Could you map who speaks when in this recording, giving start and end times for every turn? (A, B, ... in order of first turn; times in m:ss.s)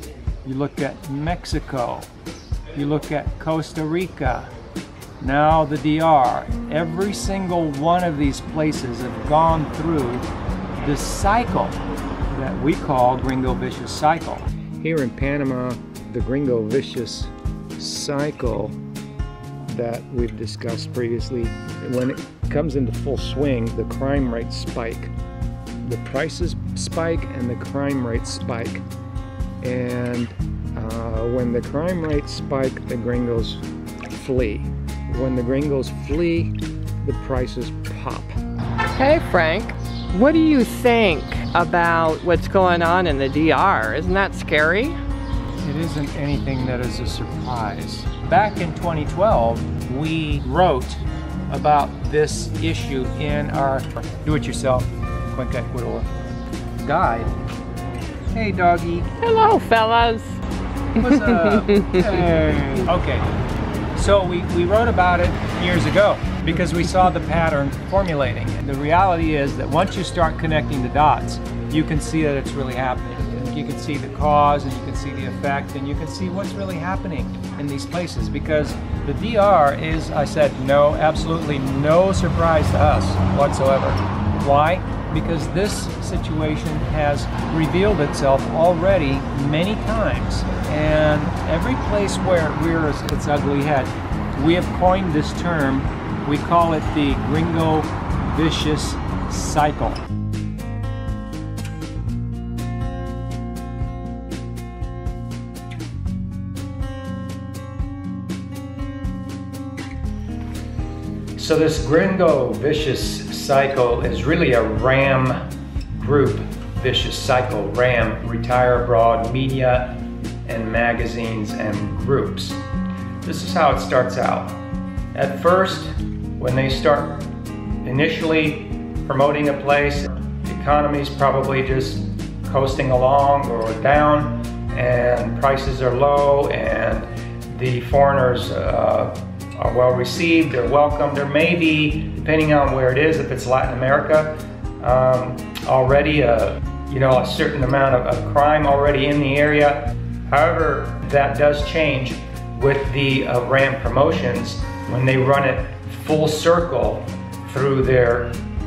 0:00.4-0:02.1 A
0:02.7-0:04.5 A
0:05.2-0:10.2 A
0:10.8-0:11.8 A
0:12.3-0:18.8 A
0:19.7-0:25.1 A
0:25.8-0:28.8 A
0:29.6-0:38.4 A
0:39.0-0:45.0 B
0:45.6-0:56.1 A
0:56.8-0:57.3 A
0:58.3-0:59.1 A
0:59.2-1:00.4 B
1:01.0-1:03.3 A
1:01.0-1:02.0 B
1:04.0-1:40.0 A
1:51.4-1:55.4 A
1:56.0-2:02.6 A
2:03.2-2:04.6 A
2:05.2-2:07.2 A
2:07.8-2:38.4 A